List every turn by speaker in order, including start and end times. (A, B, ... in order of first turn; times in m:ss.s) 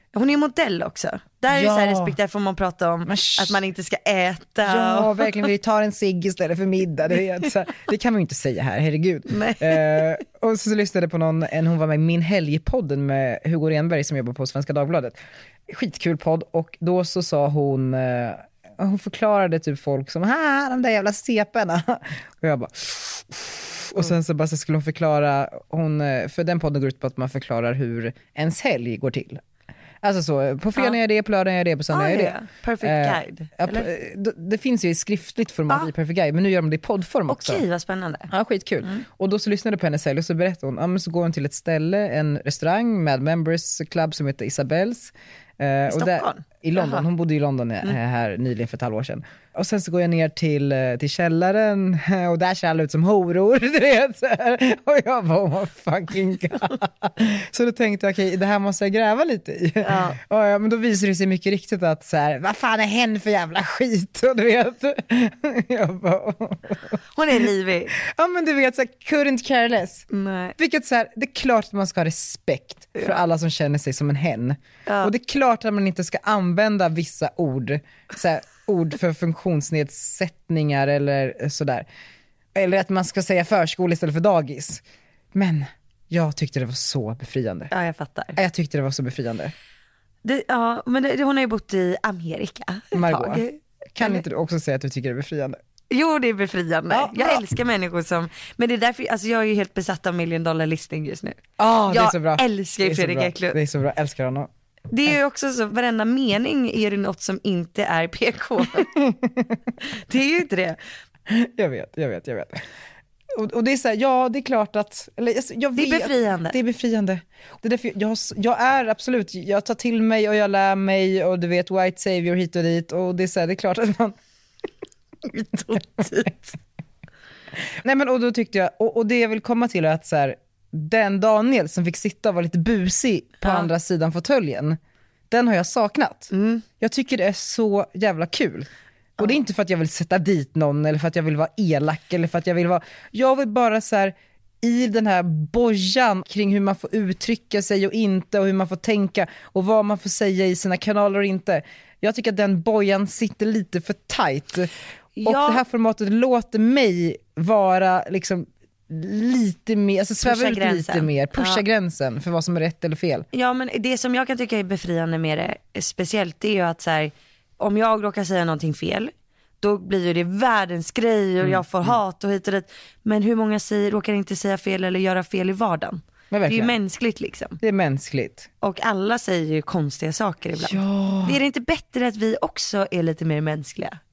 0:00.1-0:05.4 A
0:01.5-0:02.2 B
0:03.1-0:03.6 B
0:04.6-0:15.2 B
0:09.3-0:10.1 A
0:15.7-0:29.4 B
0:30.0-0:37.6 B
0:31.9-0:33.9 A
0:37.3-0:38.3 A
0:38.3-1:07.0 B
0:45.9-0:47.0 A
0:59.8-1:00.2 A
1:07.2-1:07.9 A
1:07.9-1:21.9 B
1:10.1-1:10.6 A
1:14.9-1:15.1 A
1:22.6-1:24.8 B
1:25.3-1:27.7 B
1:27.7-1:28.4 A
1:28.4-1:29.5 B
1:30.2-1:34.2 A
1:32.9-1:33.4 B
1:34.0-1:35.6 B
1:35.9-1:43.6 A
1:36.9-1:37.4 B
1:41.6-1:44.5 B
1:44.9-1:48.9 A
1:48.7-1:49.6 B
1:49.9-1:50.8 A
1:51.3-1:52.6 B
1:53.3-2:04.2 B
1:55.8-1:56.6 A
2:05.3-2:06.5 A
2:07.7-2:14.8 B
2:13.4-2:13.7 A
2:15.3-2:34.7 B
2:16.3-2:16.6 A
2:35.2-2:35.6 A
2:35.2-2:43.3 B
2:40.2-2:41.6 A
2:43.3-2:57.6 A
2:51.4-2:52.0 B
2:56.3-2:56.8 B
2:57.6-2:58.5 B
2:58.6-3:04.0 A
3:00.6-3:01.4 B